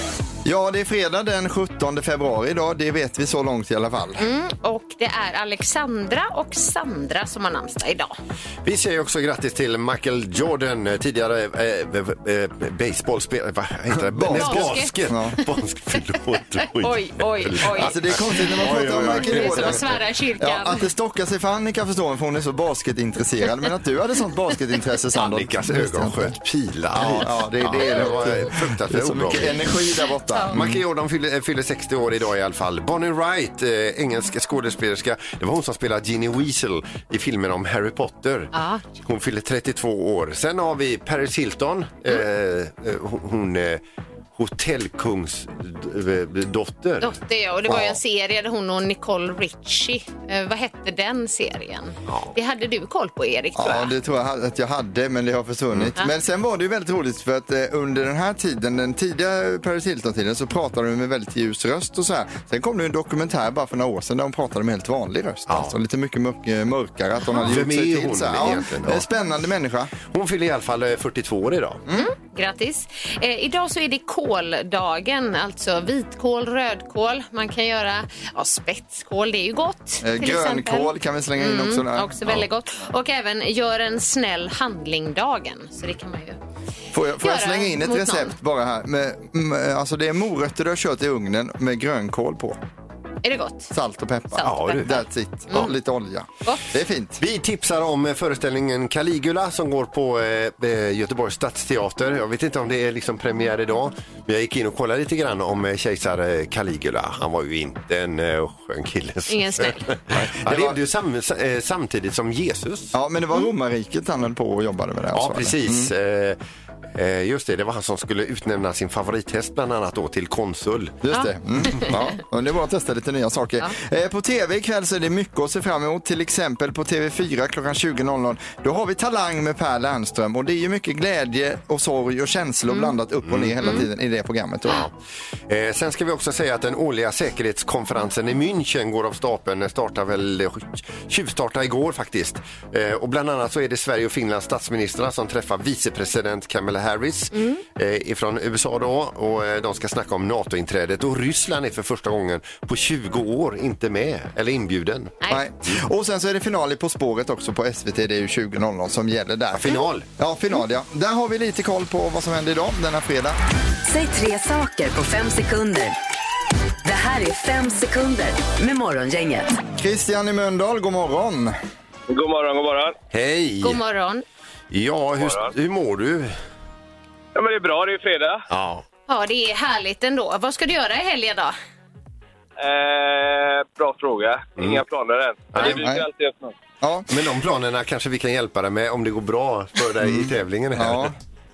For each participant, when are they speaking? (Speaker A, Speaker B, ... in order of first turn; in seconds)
Speaker A: 0.4-4.2, 13.9-15.4, 17.7-26.3, 26.9-30.8, 53.5-69.9, 80.0-82.4, 86.9-92.6, 93.7-97.2, 110.2-110.8, 112.9-115.9, 121.0-134.8, 155.3-163.4, 169.8-171.6, 185.6-186.1, 186.8-187.1, 190.0-191.1
Speaker B: 4.2-8.1, 14.3-14.9, 16.6-20.9, 38.5-38.8, 47.0-53.9, 71.9-86.4, 87.2-88.3, 93.2-93.7, 94.3-95.7, 109.3-109.9, 121.1-122.0, 147.3-147.6, 173.6-174.2, 179.1-181.5
Speaker C: 8.6-19.9, 25.2-29.6, 30.5-43.8, 44.4-47.1, 67.4-69.0, 70.0-71.8, 94.4-94.9, 97.2-112.9, 115.1-116.4, 116.9-121.0, 133.3-133.7, 135.5-155.2, 159.6-160.1, 173.1-173.8, 174.7-176.3, 178.5-178.8, 184.6-184.8, 185.5-185.9, 187.1-191.1
Speaker D: 163.8-165.9, 166.8-169.5
Speaker E: 172.1-172.9, 175.2-175.5, 177.3-178.4, 182.6-186.5